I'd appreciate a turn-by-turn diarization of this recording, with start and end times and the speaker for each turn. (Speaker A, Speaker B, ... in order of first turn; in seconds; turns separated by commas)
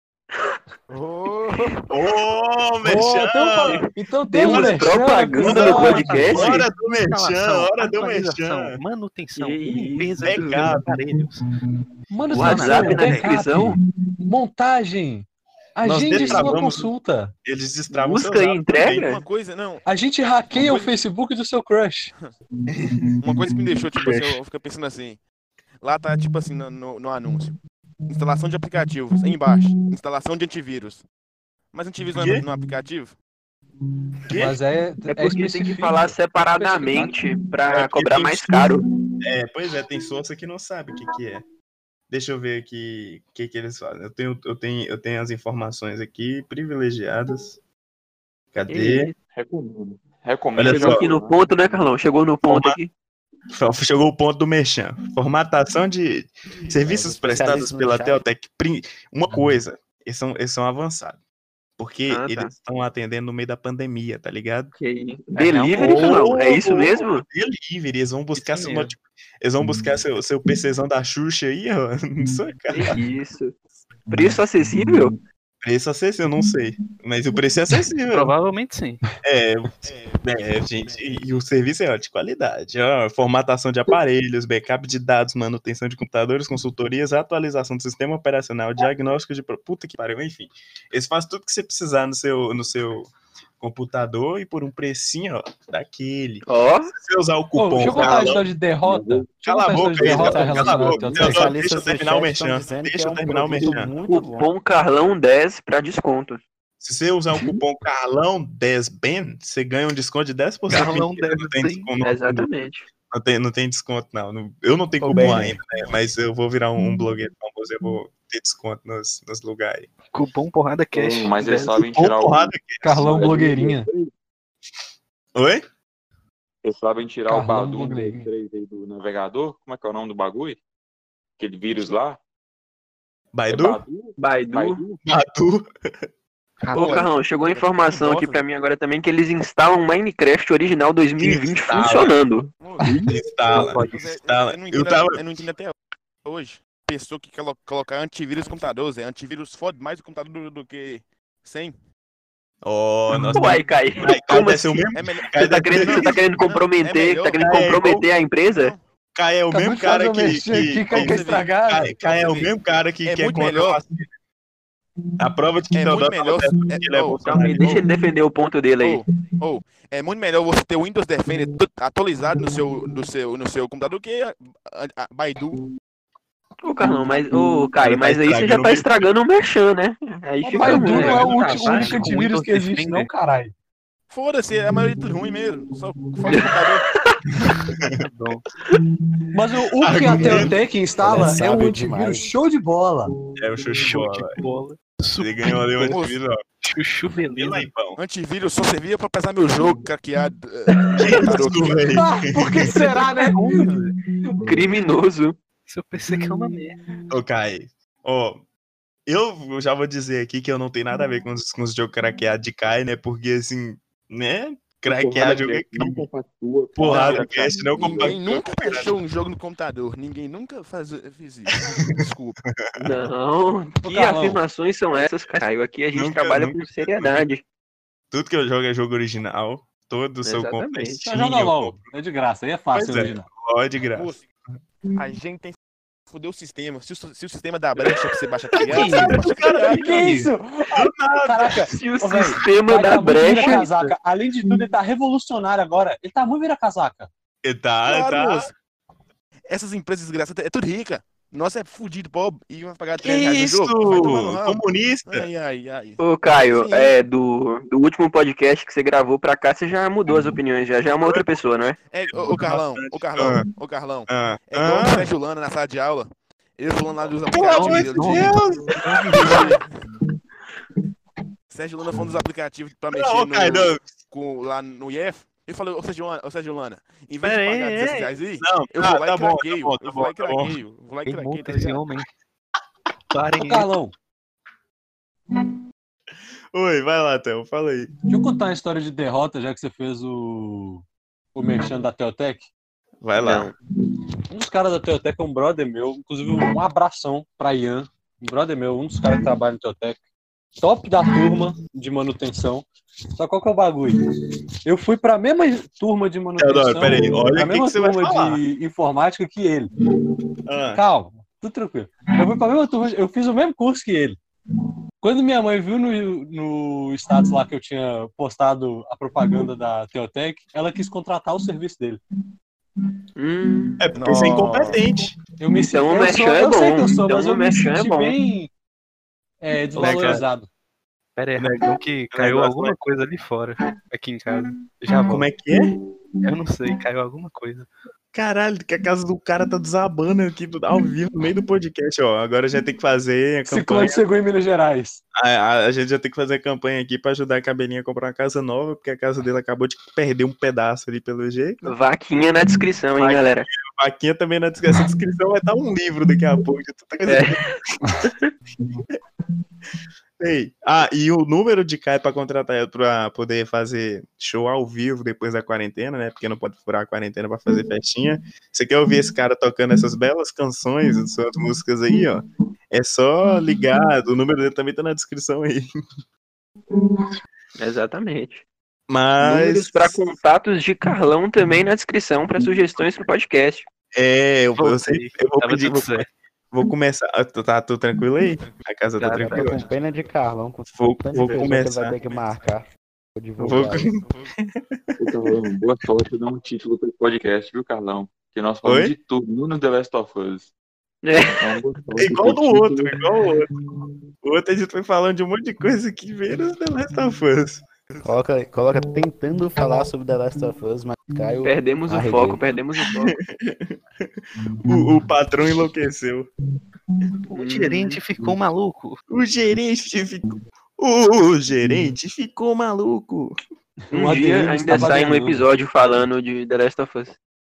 Speaker A: 0.9-1.9, Speaker B: 1.9-3.9, Speaker C: 2.8-6.5, Speaker D: 4.3-6.5, Speaker B: 4.4-8.8, Speaker E: 5.4-11.4, Speaker D: 9.4-10.7, Speaker B: 10.2-10.9, Speaker C: 12.1-13.7, Speaker E: 12.3-13.3, Speaker D: 12.3-13.8, Speaker C: 14.3-17.3, Speaker B: 15.8-16.9, Speaker B: 17.4-19.1, Speaker D: 17.9-19.2, Speaker F: 18.9-19.8, Speaker C: 19.9-22.1, Speaker F: 20.5-20.9, Speaker B: 22.8-24.4, Speaker F: 23.2-25.2, Speaker F: 25.8-27.6, Speaker F: 28.1-31.1, Speaker F: 31.7-33.2, Speaker B: 32.1-32.5, Speaker B: 34.3-34.6, Speaker C: 34.4-37.2, Speaker D: 35.1-38.8, Speaker B: 37.7-41.5, Speaker B: 42.1-47.6, Speaker B: 48.5-49.1, Speaker D: 48.7-49.2, Speaker G: 49.3-51.8, Speaker B: 50.6-51.0, Speaker D: 50.6-52.9, Speaker B: 52.5-52.8, Speaker B: 53.5-61.2, Speaker A: 56.8-58.2, Speaker B: 61.8-64.7, Speaker D: 62.1-62.5, Speaker D: 64.8-67.2, Speaker E: 65.4-66.2, Speaker B: 65.7-73.0, Speaker E: 68.4-68.9, Speaker D: 72.7-73.6, Speaker D: 74.1-75.1, Speaker B: 75.6-78.3, Speaker E: 78.1-79.0, Speaker B: 79.2-98.4, Speaker D: 96.5-96.9, Speaker C: 97.6-101.5, Speaker G: 97.8-99.3, Speaker B: 99.4-104.0, Speaker A: 100.1-104.5, Speaker G: 100.6-101.4, Speaker D: 103.7-106.4, Speaker B: 106.8-112.5, Speaker E: 110.7-111.9, Speaker D: 112.0-112.9, Speaker B: 113.1-119.9, Speaker A: 115.0-115.6, Speaker E: 120.1-121.9, Speaker G: 121.0-124.1, Speaker B: 121.9-123.0, Speaker C: 122.8-123.9, Speaker B: 125.3-125.6, Speaker G: 126.6-130.6, Speaker C: 127.3-128.3, Speaker G: 131.4-132.2, Speaker B: 133.3-133.8, Speaker G: 133.5-135.0, Speaker D: 134.2-134.8, Speaker B: 135.1-135.7, Speaker F: 136.7-138.4, Speaker D: 136.7-142.5, Speaker B: 141.2-142.1, Speaker F: 142.6-145.7, Speaker C: 142.8-143.1, Speaker B: 143.1-145.2, Speaker E: 143.5-144.0, Speaker F: 146.2-151.8, Speaker B: 152.6-156.0, Speaker D: 153.1-158.7, Speaker F: 154.9-157.6, Speaker B: 157.4-158.1, Speaker F: 158.5-158.8, Speaker B: 159.2-164.1, Speaker C: 159.5-162.5, Speaker F: 160.9-161.6, Speaker F: 163.0-163.8, Speaker B: 165.2-167.8, Speaker F: 165.7-167.8, Speaker D: 167.2-169.0, Speaker F: 168.8-175.6, Speaker D: 176.6-181.4, Speaker B: 177.8-179.1, Speaker C: 180.4-183.5, Speaker E: 180.6-183.1, Speaker B: 181.1-181.4, Speaker F: 184.1-186.9, Speaker D: 186.3-187.6, Speaker E: 187.9-188.4, Speaker C: 189.3-193.1, Speaker B: 189.8-190.6, Speaker A: 190.0-192.3, Speaker B: 193.4-194.3, Speaker E: 193.8-195.7, Speaker B: 195.2-196.4, Speaker F: 195.8-196.2, Speaker E: 196.6-197.7, Speaker B: 197.3-198.0, Speaker F: 198.0-201.9, Speaker D: 200.8-201.4, Speaker B: 201.0-202.8, Speaker C: 201.9-203.6, Speaker E: 203.0-203.9, Speaker D: 204.4-205.4, Speaker E: 205.7-206.8, Speaker B: 207.1-208.4, Speaker B: 209.1-216.1, Speaker G: 214.8-218.2, Speaker B: 216.8-219.0, Speaker F: 216.9-222.4, Speaker B: 222.5-222.9, Speaker D: 222.8-227.4, Speaker C: 223.8-224.4, Speaker B: 225.9-227.3, Speaker B: 228.1-231.9, Speaker D: 230.2-231.0, Speaker C: 231.1-233.3, Speaker B: 232.7-234.1, Speaker F: 233.9-234.3, Speaker F: 235.0-235.6, Speaker F: 236.1-240.2, Speaker D: 238.6-238.9, Speaker C: 238.7-247.1, Speaker B: 238.8-241.6, Speaker D: 241.7-243.7, Speaker E: 243.2-243.9, Speaker B: 247.4-248.5, Speaker F: 247.8-248.6, Speaker F: 249.5-257.0, Speaker B: 253.0-255.2, Speaker D: 256.0-261.8, Speaker F: 261.9-268.5, Speaker B: 262.1-263.5, Speaker B: 264.1-265.1, Speaker B: 267.3-269.5, Speaker E: 267.4-268.4, Speaker F: 269.1-269.7, Speaker D: 269.2-269.5, Speaker F: 271.5-281.8, Speaker B: 272.9-273.9, Speaker E: 277.2-278.2, Speaker B: 278.4-280.6, Speaker E: 281.1-282.1, Speaker E: 283.1-283.7, Speaker C: 283.4-283.9, Speaker B: 286.5-287.9, Speaker C: 288.1-290.8, Speaker C: 291.4-292.5, Speaker B: 293.0-293.5, Speaker D: 293.2-293.5, Speaker C: 294.3-300.0, Speaker C: 300.6-304.0, Speaker C: 304.6-309.7, Speaker B: 306.4-308.4, Speaker B: 310.4-310.8, Speaker C: 310.8-314.2, Speaker C: 315.0-322.0, Speaker D: 323.2-324.2, Speaker B: 323.8-325.2, Speaker F: 324.0-324.7, Speaker C: 325.4-328.5, Speaker D: 325.6-328.2, Speaker C: 329.4-330.5, Speaker B: 329.8-330.2, Speaker E: 329.8-330.2, Speaker E: 331.2-335.3, Speaker B: 331.4-332.8, Speaker B: 335.1-335.7, Speaker E: 336.2-337.7, Speaker B: 338.1-344.0, Speaker C: 343.5-345.0, Speaker B: 345.1-351.7, Speaker D: 351.6-353.5, Speaker B: 353.0-357.5, Speaker D: 357.1-358.3, Speaker B: 360.2-375.7, Speaker D: 377.6-378.4, Speaker B: 378.9-380.2, Speaker D: 379.2-383.7, Speaker B: 383.9-389.6, Speaker E: 384.6-386.1, Speaker E: 389.0-389.6, Speaker A: 389.2-394.0, Speaker B: 390.7-392.0, Speaker B: 393.4-395.0, Speaker G: 395.0-400.5, Speaker B: 398.6-398.9, Speaker D: 401.0-401.5, Speaker G: 401.3-403.0, Speaker B: 402.0-403.5, Speaker B: 404.2-407.7, Speaker A: 408.0-412.4, Speaker D: 411.4-413.1, Speaker B: 413.0-414.1, Speaker B: 414.7-416.3, Speaker E: 417.3-419.0, Speaker D: 417.3-418.0, Speaker B: 419.1-423.4, Speaker C: 423.9-425.5, Speaker D: 423.9-427.2